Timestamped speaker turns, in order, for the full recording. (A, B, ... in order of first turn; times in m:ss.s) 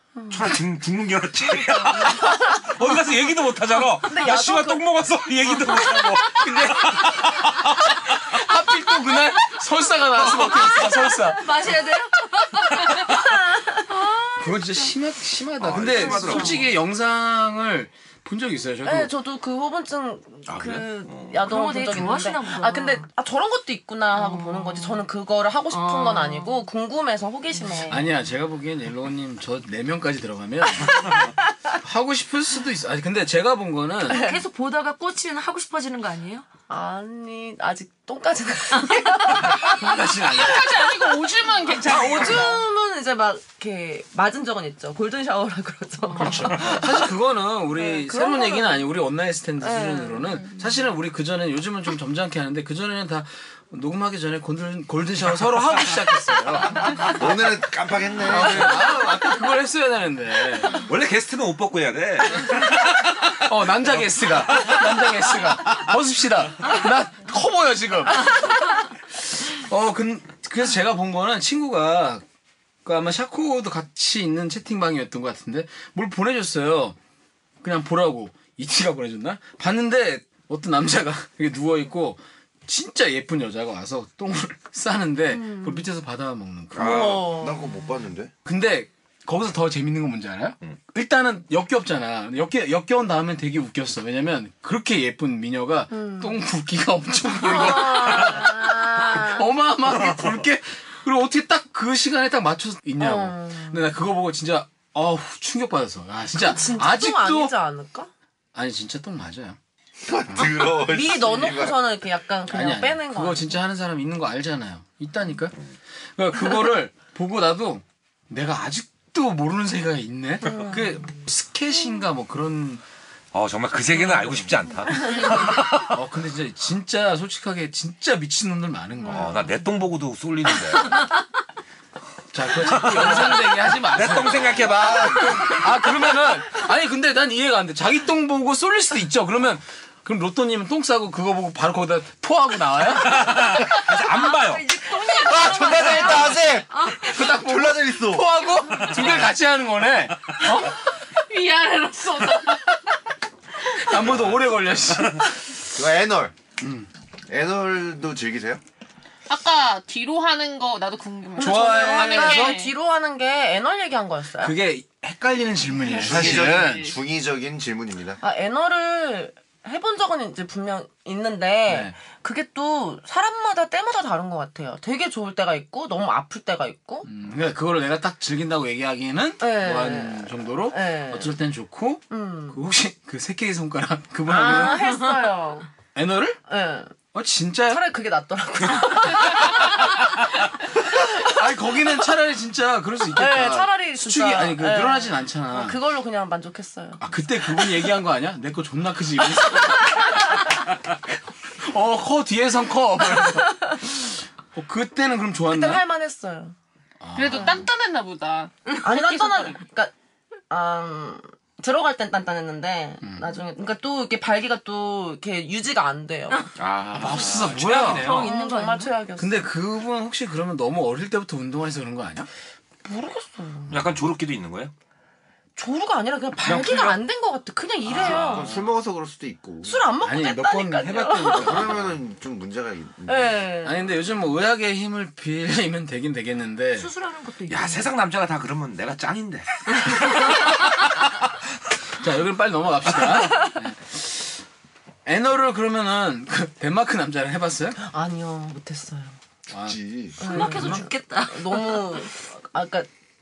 0:00.2-0:00.6 A
0:00.3-0:08.0 B
0:04.1-0:04.9 A
0:05.8-0:06.1 A
0:06.4-0:07.5 C
0:08.2-0:11.4 C
0:10.2-0:14.9 D
0:12.7-0:13.8 A
0:14.4-0:19.1 C
0:15.6-0:16.7 B
0:16.0-0:16.6 D
0:18.8-0:28.0 A
0:20.5-0:21.5 B
0:21.4-0:23.1 D
0:24.1-0:25.0 D
0:25.7-0:26.6 D
0:27.5-0:28.0 D
0:27.9-0:31.1 C
0:31.8-0:34.2 C
0:34.1-0:36.4 D
0:34.1-0:34.4 A
0:36.7-0:39.8 A
0:39.6-0:40.7 C
0:40.3-0:42.6 E
0:41.8-0:47.0 A
0:46.0-0:46.6 D
0:46.2-0:57.1 C
0:47.8-0:48.9 A
0:49.6-0:50.5 A
0:57.0-0:58.8 F
0:58.3-1:00.8 C
1:00.8-1:03.4 B
1:03.4-1:12.2 C
1:04.0-1:04.8 B
1:12.8-1:17.0 C
1:17.6-1:27.0 C
1:25.3-1:25.9 A
1:26.7-1:27.4 B
1:26.8-1:28.3 F
1:26.8-1:27.8 A
1:28.4-1:47.5 C
1:35.9-1:36.4 A
1:37.4-1:39.5 A
1:37.9-1:38.3 B
1:43.0-1:43.9 A
1:46.4-1:48.1 A
1:48.6-1:49.6 C
1:50.0-1:51.8 F
1:50.4-1:53.6 A
1:52.5-1:55.6 C
1:56.2-2:02.8 C
2:00.4-2:01.1 A
2:03.3-2:06.0 B
2:05.9-2:09.5 C
2:09.1-2:11.1 B
2:09.1-2:09.4 A
2:12.3-2:23.4 C
2:12.6-2:15.8 B
2:23.1-2:24.8 B
2:23.7-2:27.3 D
2:25.1-2:28.3 F
2:27.0-2:30.7 C
2:31.2-2:32.7 E
2:33.7-2:35.6 C
2:35.7-2:36.3 F
2:36.6-2:36.9 C
2:37.3-2:38.6 F
2:39.3-2:42.7 E
2:41.4-2:44.6 A
2:41.4-2:42.6 C
2:44.4-2:46.9 C
2:45.9-2:47.0 E
2:46.0-2:48.2 F
2:48.2-2:57.1 A
2:51.7-2:52.0 C
2:57.0-3:04.8 C
2:59.4-3:01.4 A
3:02.1-3:02.6 A
3:04.3-3:05.7 A
3:04.8-3:05.2 D
3:06.0-3:06.4 C
3:06.5-3:06.9 A
3:07.1-3:07.8 C
3:07.7-3:10.0 A
3:11.0-3:15.8 C
3:13.2-3:17.0 A
3:17.0-3:20.2 C
3:21.6-3:25.8 C
3:25.5-3:26.6 A
3:27.0-3:27.7 C
3:27.2-3:29.6 E
3:27.3-3:27.6 A
3:28.8-3:29.9 A
3:30.5-3:36.5 A
3:36.6-3:38.3 B
3:36.9-3:38.2 C
3:37.7-3:39.0 D
3:38.0-3:39.5 A
3:39.2-3:42.3 C
3:42.8-3:43.9 A
3:43.7-3:44.7 B
3:45.6-3:48.5 A
3:46.4-3:47.0 B
3:47.9-3:49.9 F
3:48.0-3:48.6 B
3:49.6-3:51.7 A
3:50.0-3:51.8 C
3:51.4-3:53.4 F
3:53.1-3:53.9 A
3:53.6-3:56.9 C
3:56.8-3:57.9 D
3:57.5-4:00.5 B
4:02.0-4:04.4 C
4:05.1-4:07.8 C
4:07.8-4:09.2 A
4:09.5-4:09.8 C
4:09.6-4:10.2 F
4:10.2-4:12.0 D
4:10.2-4:12.9 A